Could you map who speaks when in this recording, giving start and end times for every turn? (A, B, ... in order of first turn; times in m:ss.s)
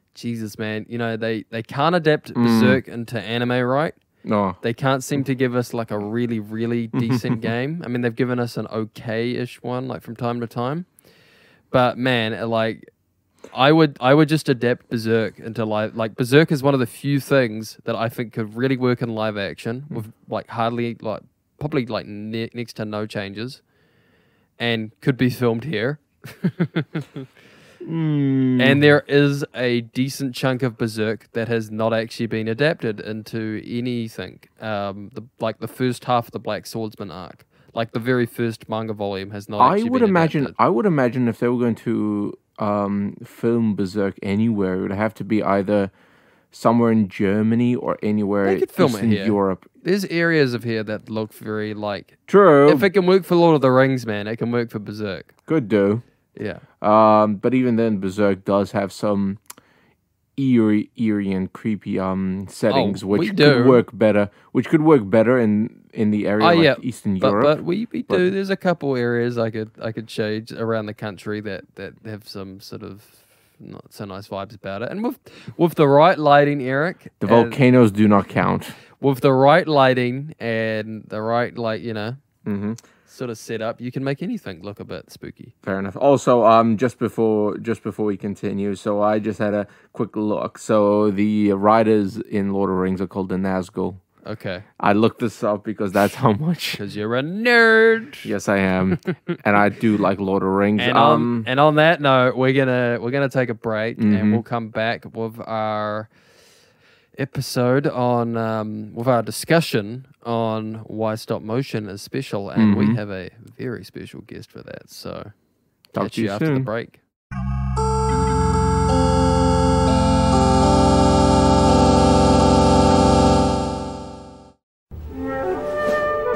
0:00.2-0:04.0 A
0:02.4-0:02.8 B
0:04.2-0:04.6 B
0:04.6-0:10.9 A
0:07.0-0:07.4 B
0:11.7-0:12.9 A
0:13.5-0:23.6 A
0:24.6-0:27.2 A
0:27.8-0:28.8 B
0:28.6-0:40.5 A
0:39.6-0:45.9 B
0:46.5-0:49.6 B
0:48.4-0:55.3 A
0:52.3-0:52.9 B
0:55.5-0:56.0 B
0:56.4-0:56.6 A
0:56.8-0:59.4 B
1:00.4-1:07.6 B
1:02.7-1:03.8 A
1:06.4-1:17.6 A
1:17.2-1:18.8 B
1:19.0-1:22.2 A
1:22.5-1:22.8 B
1:23.1-1:25.5 A
1:25.6-1:34.0 B
1:34.2-1:34.7 A
1:34.8-1:36.8 B
1:36.8-1:38.3 A
1:38.2-1:41.5 B
1:40.8-1:46.1 A
1:44.0-1:44.4 B
1:47.2-1:57.0 A
1:52.6-1:53.0 B
1:55.9-1:56.7 B